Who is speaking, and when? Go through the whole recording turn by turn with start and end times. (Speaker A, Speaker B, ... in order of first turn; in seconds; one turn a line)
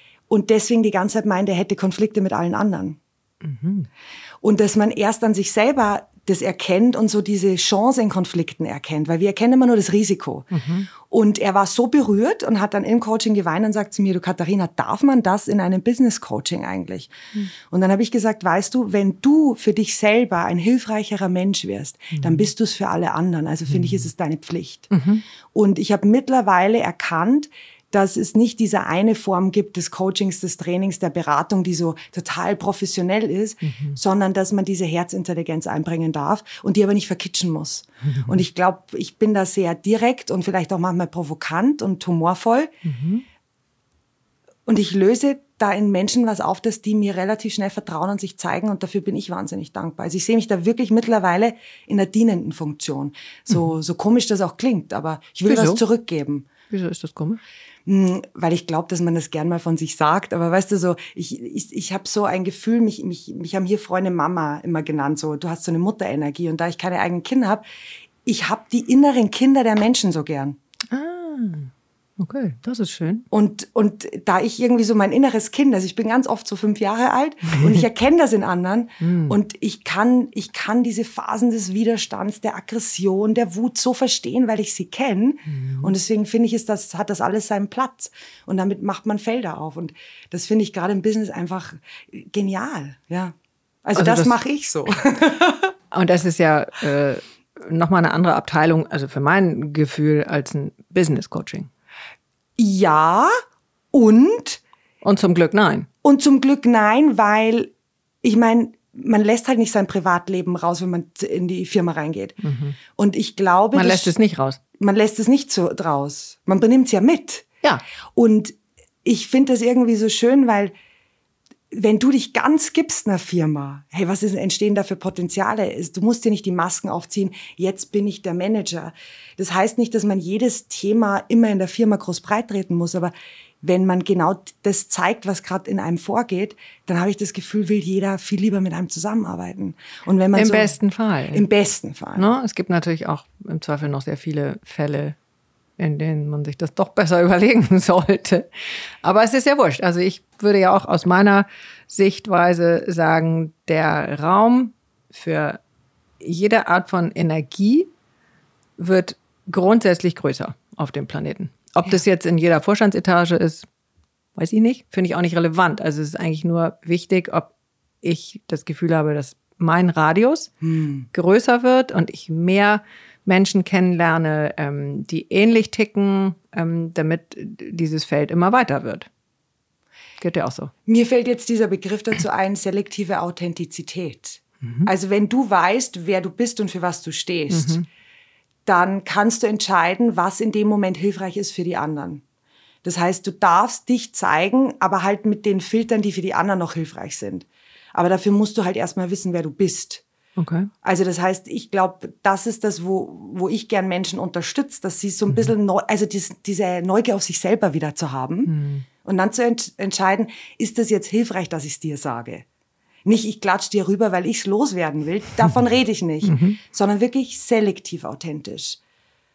Speaker A: 0.3-3.0
Speaker B: 3.4-3.9
Speaker A: 4.4-10.5
Speaker B: 10.5-10.9
Speaker A: 11.0-24.9
Speaker B: 22.2-22.4
Speaker B: 24.9-25.2
Speaker A: 25.5-42.7
Speaker B: 33.6-34.0
Speaker B: 38.0-38.4
Speaker B: 42.9-43.2
Speaker A: 44.7-56.5
Speaker B: 55.5-55.8
Speaker B: 56.7-57.4
Speaker A: 57.9-67.6
Speaker A: 68.2-70.6
Speaker B: 70.9-73.3
Speaker A: 73.3-95.7
Speaker B: 79.0-79.4
Speaker B: 85.5-85.9
Speaker B: 94.0-94.3
Speaker B: 95.9-101.7
Speaker A: 102.6-103.3
Speaker A: 103.9-104.6
Speaker B: 105.0-105.9
Speaker A: 106.0-107.7
Speaker A: 108.2-112.4
Speaker B: 112.4-112.8
Speaker A: 112.9-114.1
Speaker B: 113.7-114.6
Speaker A: 114.8-117.5
Speaker A: 118.2-120.7
Speaker A: 121.7-140.8
Speaker B: 140.3-141.4
Speaker A: 141.3-142.3
Speaker B: 142.2-145.2
Speaker B: 145.8-155.6
Speaker B: 156.2-157.9
Speaker B: 158.8-163.7
Speaker B: 164.4-170.5
Speaker A: 170.6-171.1
Speaker B: 171.1-179.1
Speaker B: 180.2-180.7
Speaker A: 180.9-187.8
Speaker B: 184.6-184.9
Speaker B: 187.5-187.9
Speaker A: 188.7-192.2
Speaker A: 192.8-200.0
Speaker B: 200.4-200.7
Speaker A: 200.8-208.5
Speaker B: 208.5-208.9
Speaker A: 209.0-212.4
Speaker A: 213.1-218.8
Speaker B: 216.2-216.6